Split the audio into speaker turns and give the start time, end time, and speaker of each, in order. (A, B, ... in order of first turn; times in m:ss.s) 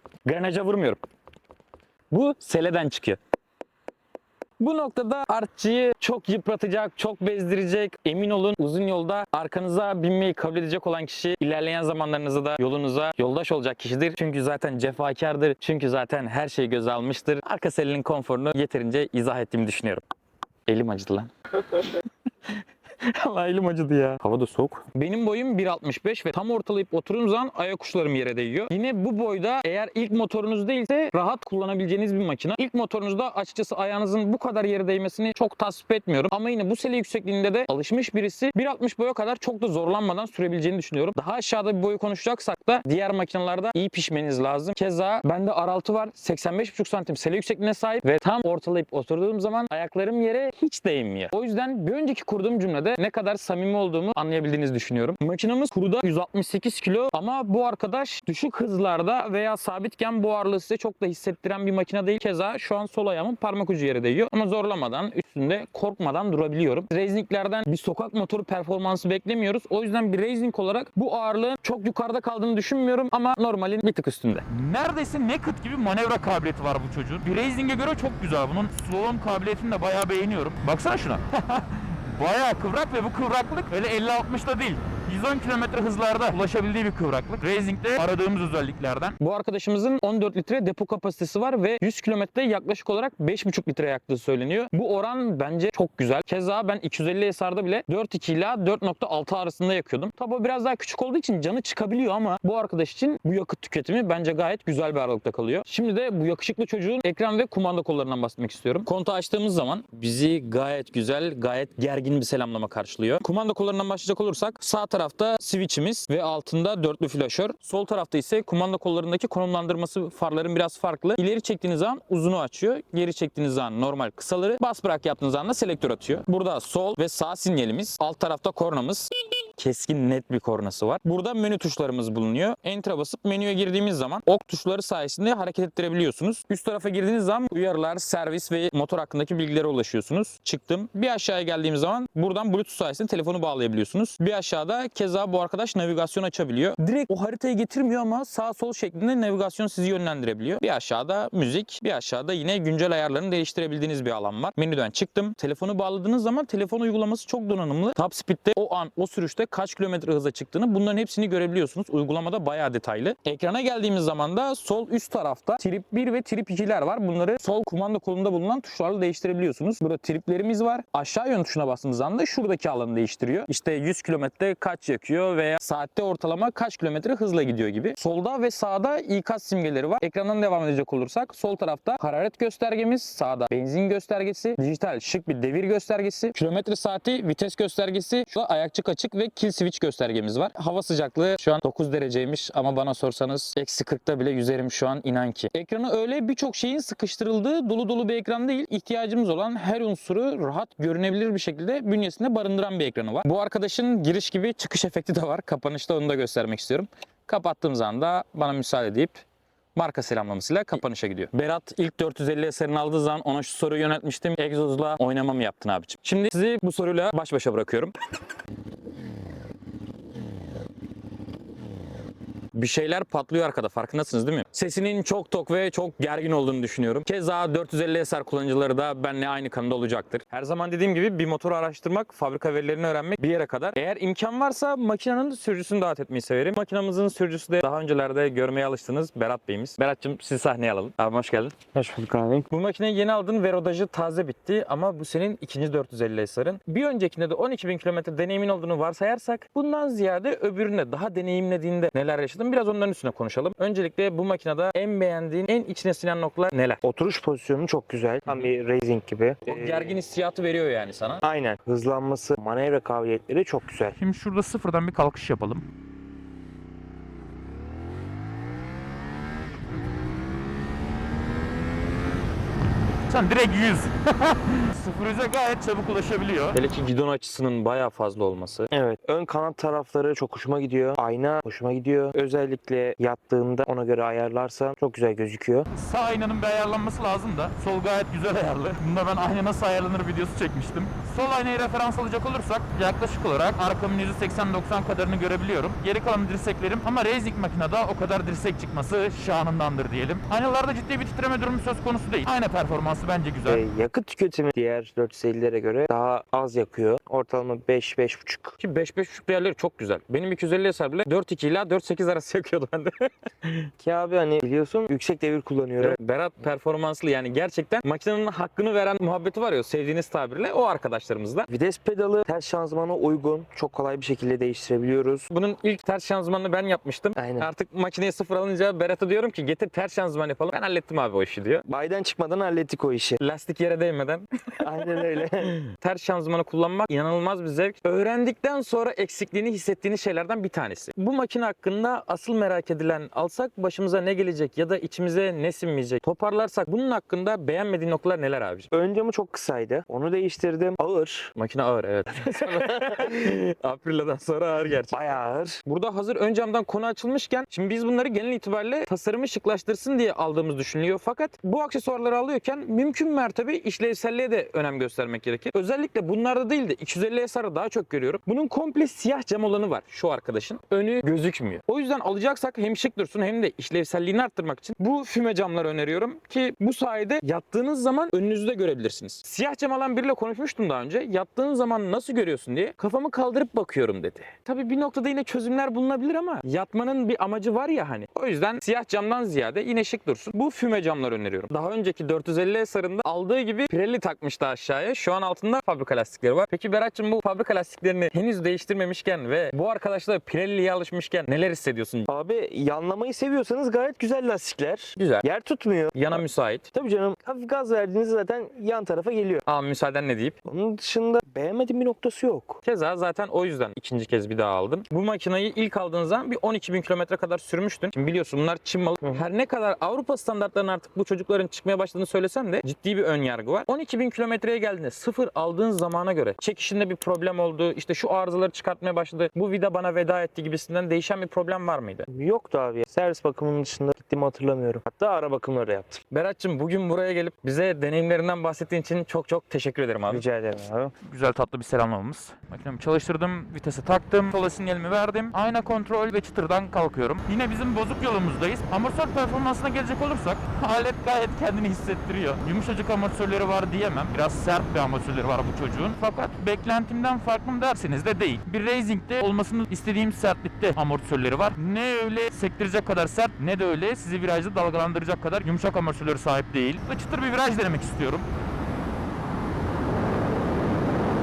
0:00.2-0:01.0 A
0:02.1-0:03.2 A
0:04.6-0:20.0 A
0:20.7-1:14.4 A
1:14.5-1:29.2 B
1:29.2-3:29.2 A
3:29.7-3:37.9 A
3:42.5-4:01.6 A
4:01.7-4:02.5 C
4:02.5-4:16.8 A
4:16.8-4:20.0 C
4:19.4-4:21.2 A
4:21.2-4:24.0 C
4:24.0-4:25.6 B
4:33.1-4:36.6 B
4:36.5-4:38.7 A
4:38.7-4:45.7 C
4:45.7-5:03.6 B
5:03.4-5:08.6 C
5:08.6-5:13.7 A
5:13.8-5:16.0 C
5:15.8-5:21.5 A
5:21.5-5:25.3 C
5:25.3-5:31.6 A
5:27.2-5:27.5 C
5:31.6-5:33.2 C
5:33.2-5:48.7 A
5:34.6-5:35.5 C
5:48.7-5:51.3 C
5:51.4-6:42.1 A
5:52.4-5:53.0 C
5:54.9-5:55.6 C
6:42.1-6:49.4 C
6:45.0-6:45.2 A
6:45.9-6:46.7 A
6:49.4-6:50.4 A
6:50.4-6:52.6 C
6:52.6-7:12.1 A
7:12.1-7:16.0 C
7:16.1-7:20.2 A
7:20.1-7:20.9 C
7:21.0-7:48.3 B